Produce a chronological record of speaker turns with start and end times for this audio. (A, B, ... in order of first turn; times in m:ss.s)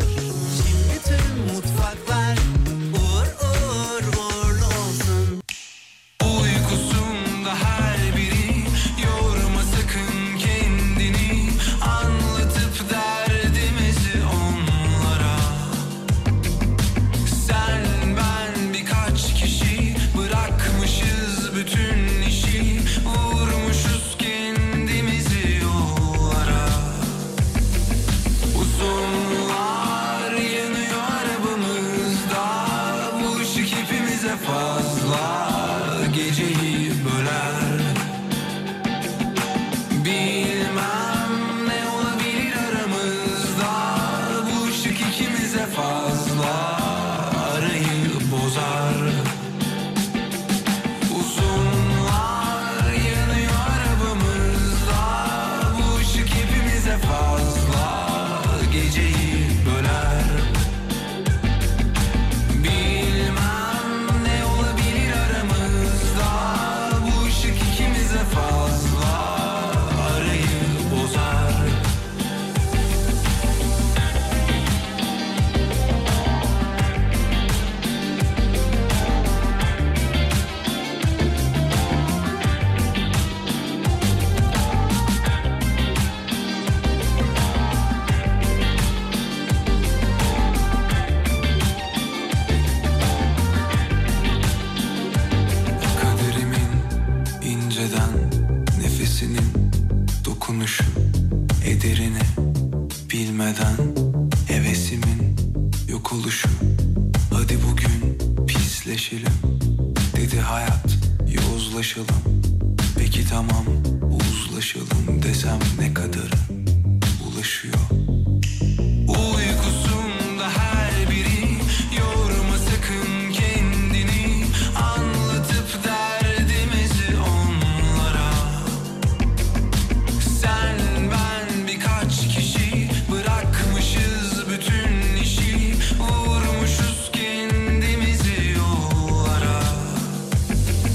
0:00.5-0:05.4 A
0:06.2-0:15.8 A
0:17.2-0:27.2 A
0:28.5-0:38.0 A
0:39.9-0:49.4 A
0:51.1-1:00.6 A
1:02.5-1:11.8 A
1:35.9-1:39.7 A
1:40.2-1:41.0 A
1:41.6-1:42.4 A
1:43.1-1:46.6 A
1:47.3-1:49.4 A
1:50.1-1:52.3 A
1:53.0-1:56.5 A
1:57.2-1:57.9 A
1:59.0-2:08.8 A
2:10.2-2:20.2 A